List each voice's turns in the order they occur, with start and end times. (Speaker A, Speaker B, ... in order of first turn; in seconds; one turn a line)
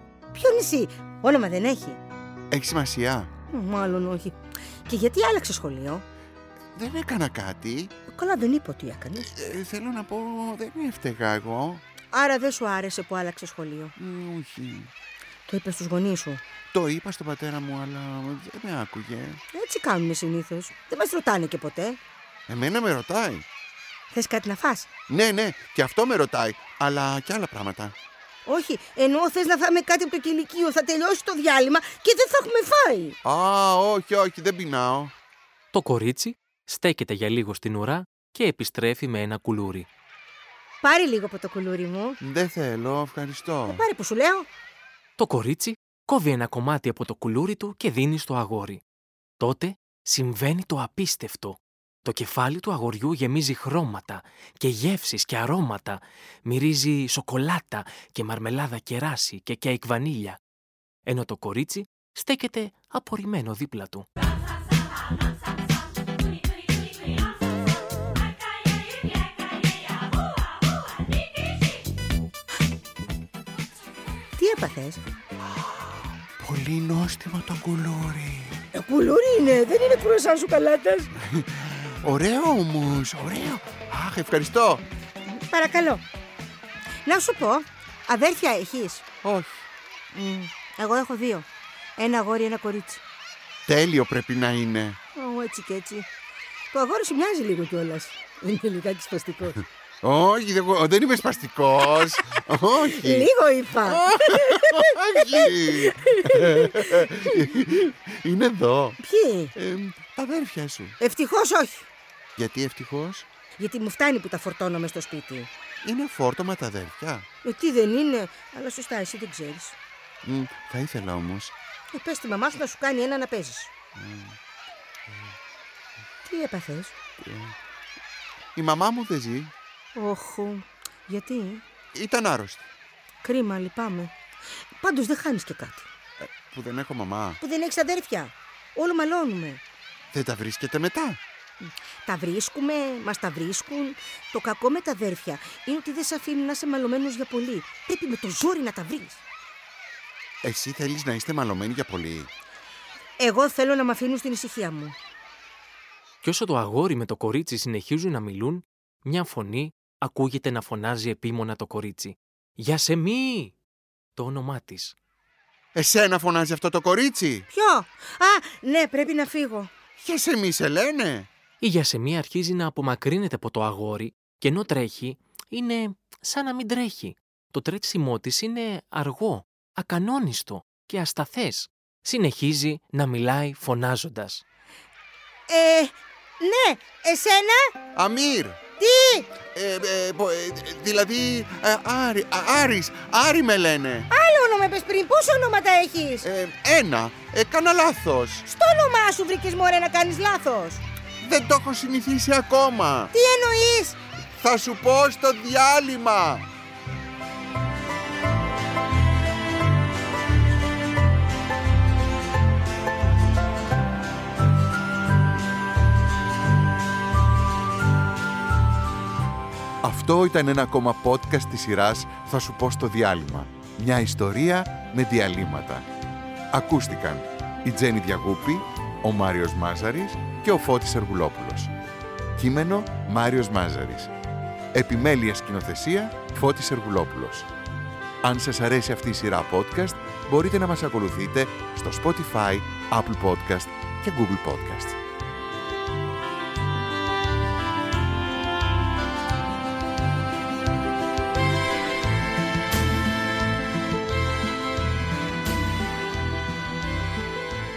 Speaker A: 0.3-2.0
Speaker B: 2.5-3.3
Speaker A: 3.5-4.3
Speaker A: 4.9-6.0
Speaker B: 6.8-7.9
Speaker A: 8.1-9.3
Speaker B: 9.2-11.8
Speaker A: 12.1-13.9
Speaker B: 14.0-14.9
Speaker A: 15.5-16.4
Speaker B: 16.7-19.4
Speaker A: 19.5-22.0
Speaker B: 22.5-23.4
Speaker A: 24.1-24.9
Speaker B: 25.1-27.9
Speaker A: 28.5-33.2
Speaker B: 33.2-35.1
Speaker C: 35.7-39.9
Speaker A: 40.8-42.2
Speaker B: 42.2-43.8
Speaker A: 43.7-44.5
Speaker C: 45.2-48.8
Speaker C: 49.4-60.4
Speaker C: 61.1-64.1
Speaker A: 74.4-75.0
Speaker B: 76.4-78.6
Speaker A: 78.7-81.1
Speaker B: 81.2-84.8
Speaker A: 85.3-86.0
Speaker A: 87.0-89.0
Speaker B: 89.2-89.7
Speaker A: 90.1-93.0
Speaker B: 93.7-95.0
Speaker A: 95.2-96.1
Speaker A: 96.7-99.6
Speaker B: 100.0-103.1
Speaker A: 102.8-107.2
Speaker B: 103.9-109.0
Speaker A: 109.0-109.5
Speaker B: 109.5-111.0
Speaker A: 111.0-111.9
Speaker B: 112.4-113.3
Speaker A: 113.6-115.5
Speaker B: 115.8-117.2
Speaker A: 117.4-119.8
Speaker B: 120.2-121.5
Speaker A: 121.9-123.7
Speaker B: 124.0-124.4
Speaker A: 126.2-127.0
Speaker B: 127.2-127.5
Speaker B: 128.6-129.5
Speaker A: 129.9-131.6
Speaker B: 131.9-132.6
Speaker A: 133.2-134.1
Speaker A: 134.8-135.9
Speaker B: 136.3-137.4
Speaker A: 137.4-139.6
Speaker B: 140.1-141.2
Speaker A: 142.1-149.2
Speaker B: 150.4-152.3
Speaker A: 153.2-155.0
Speaker C: 156.2-163.6
Speaker C: 164.2-164.9
Speaker B: 165.8-167.5
Speaker A: 167.5-169.7
Speaker B: 170.0-171.3
Speaker C: 171.6-184.4
Speaker A: 185.5-187.8
Speaker B: 187.9-188.6
Speaker A: 188.8-189.3
Speaker B: 189.5-194.1
Speaker A: 194.1-196.3
Speaker B: 196.2-198.5
Speaker A: 198.5-200.8
Speaker B: 201.2-203.1
Speaker A: 203.1-204.0
Speaker B: 204.4-206.5
Speaker B: 219.8-225.9
Speaker B: 226.5-231.7
Speaker B: 232.4-234.1
Speaker B: 234.7-237.5
Speaker B: 238.2-245.0